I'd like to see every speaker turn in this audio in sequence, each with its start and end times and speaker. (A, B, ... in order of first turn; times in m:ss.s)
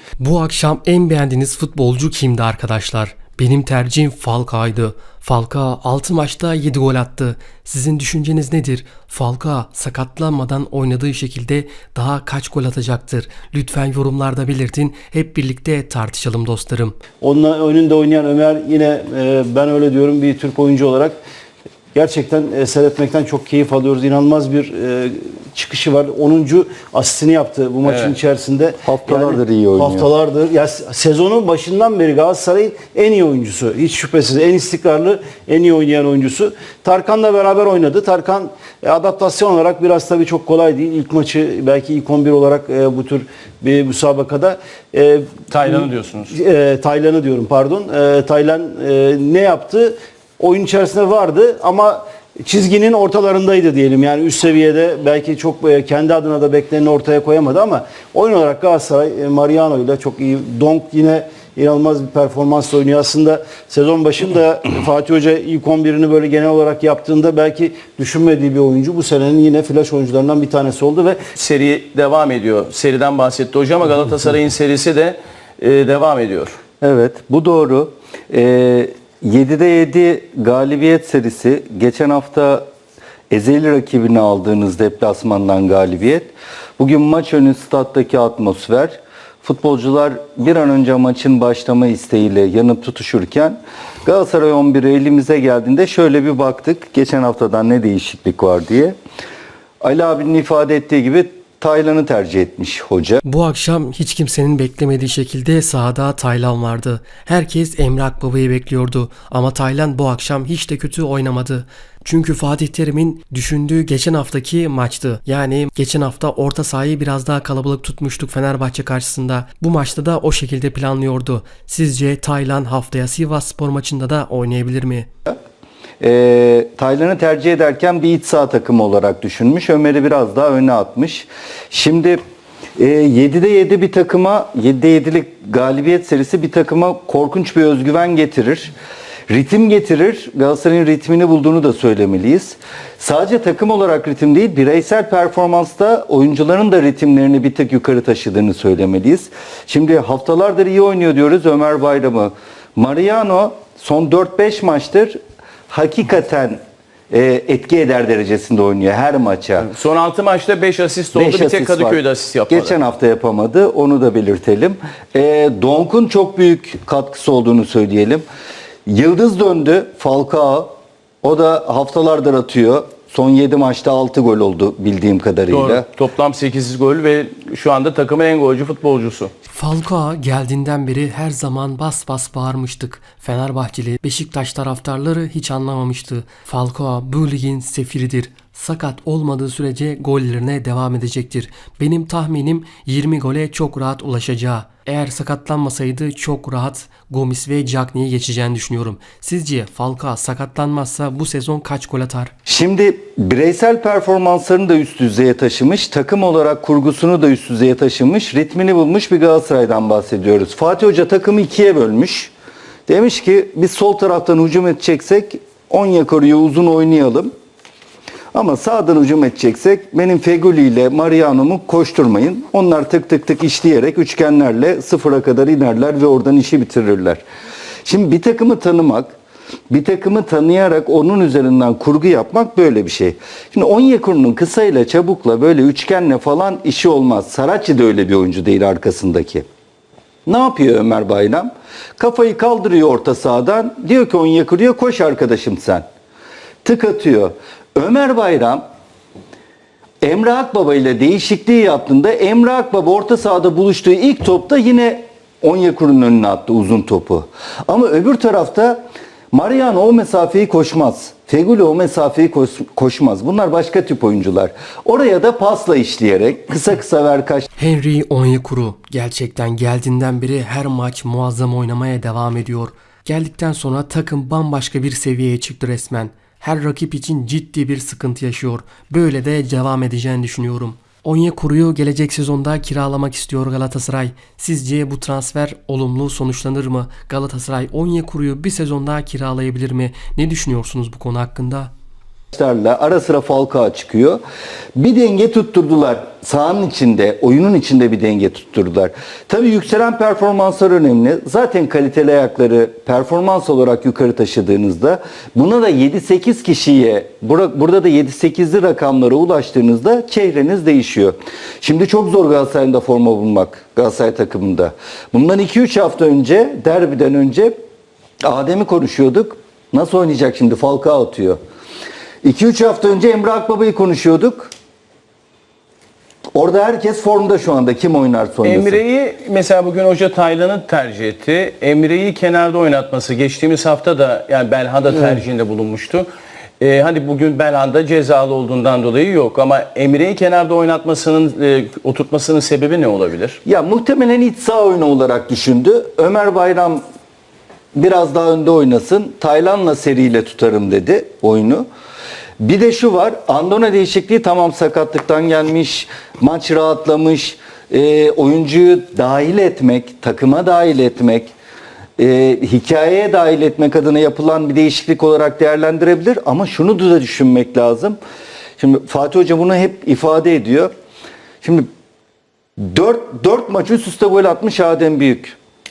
0:00.2-0:17.0 A
0:17.2-0:21.2 B
0:21.9-1:11.2 B
0:27.8-0:28.2 C
0:28.8-0:30.1 D
0:45.5-0:46.4 C
1:11.4-1:16.6 C
1:16.8-1:22.6 D
1:23.3-1:39.0 D
1:39.8-1:43.2 D
1:43.2-2:05.1 A
2:06.0-2:12.2 D
2:12.8-2:18.7 D
2:19.3-2:35.2 D
2:35.7-2:39.7 D
2:39.6-2:42.8 C
2:41.2-2:48.3 D
2:48.9-2:55.9 D
2:55.5-2:59.3 C
2:59.5-3:22.3 A
3:22.5-3:32.3 D
3:32.9-3:37.3 D
3:38.3-3:47.2 D
3:47.8-3:49.2 D
3:49.7-3:59.4 D
4:00.3-4:05.8 D
4:06.6-4:08.6 D
4:10.0-4:27.5 D
4:27.6-4:51.7 A
4:52.3-4:54.2 D
4:54.8-5:17.6 D
5:18.2-5:21.4 D
5:22.2-5:24.5 D
5:26.3-5:28.8 D
5:28.4-5:36.1 C
5:36.6-5:43.4 C
5:43.4-5:46.8 D
5:47.8-5:51.7 D
5:52.4-6:01.3 D
6:02.0-6:08.0 D
6:08.6-6:10.7 D
6:11.4-6:11.7 D
6:12.6-6:15.4 D